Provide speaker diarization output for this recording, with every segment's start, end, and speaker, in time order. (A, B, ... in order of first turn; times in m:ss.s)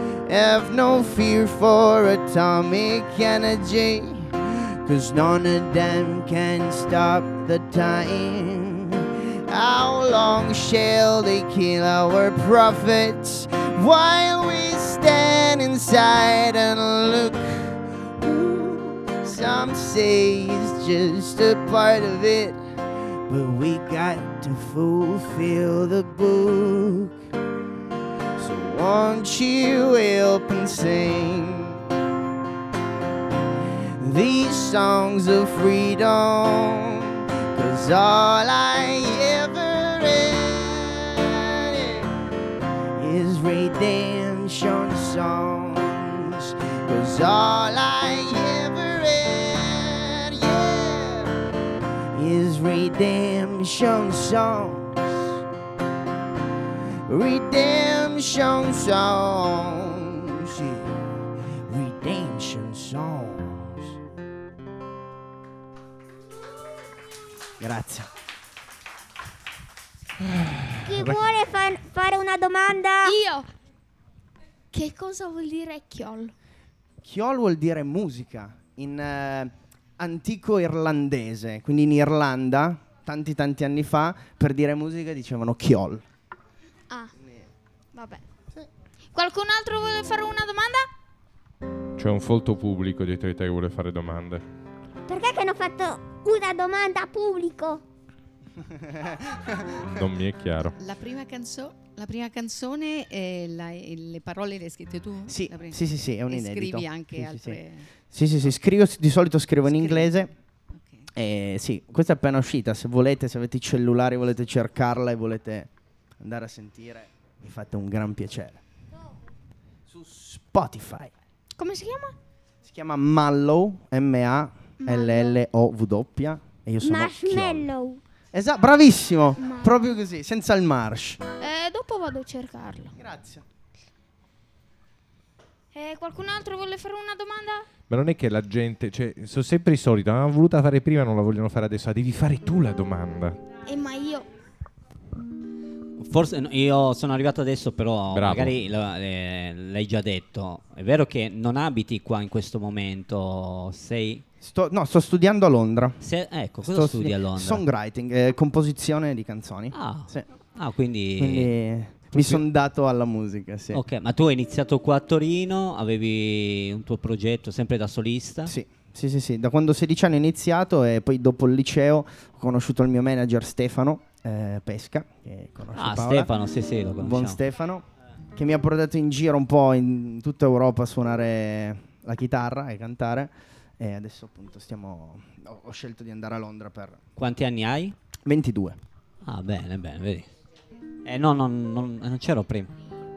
0:00.3-0:22.6 A
0:23.3-0:27.2 A
0:28.4-0:31.9 A
0:34.0-0:42.1 A
0:43.0-0:51.4 A
0:52.1-0:55.4 A
0:57.1-1:00.9 A
1:01.7-1:04.0 A
1:07.6-1:08.1 A
1:10.3-1:11.2 B
1:10.8-1:13.2 C
1:13.0-1:13.5 D
1:14.7-1:16.3 D
1:17.0-1:26.0 A
1:27.2-1:27.5 A
1:27.9-1:28.2 D
1:29.1-1:30.9 D
1:32.0-1:34.4 B
1:35.1-1:37.8 C
1:39.0-1:39.7 A
1:39.8-1:40.8 B
1:40.8-1:47.9 E
1:45.3-1:50.3 A
1:49.6-1:50.2 E
1:50.7-1:51.1 E
1:51.1-1:58.6 A
1:59.9-2:01.1 A
2:01.6-2:02.2 D
2:02.6-2:07.7 A
2:04.8-2:05.4 D
2:06.8-2:08.0 C
2:08.3-2:11.2 A
2:09.4-2:09.9 D
2:11.4-2:13.0 D
2:13.0-2:13.4 A
2:15.7-2:17.7 D
2:17.9-2:23.4 B
2:23.6-2:24.3 D
2:26.0-2:34.2 F
2:28.1-2:28.6 B
2:34.4-2:43.8 A
2:36.0-2:37.6 F
2:39.7-2:41.5 F
2:42.1-2:42.4 F
2:43.7-2:48.5 F
2:48.5-2:56.3 A
2:55.7-2:57.4 F
2:57.0-3:07.0 A
3:07.2-3:08.0 F
3:08.2-3:08.8 A
3:09.2-3:10.3 F
3:11.0-3:12.7 F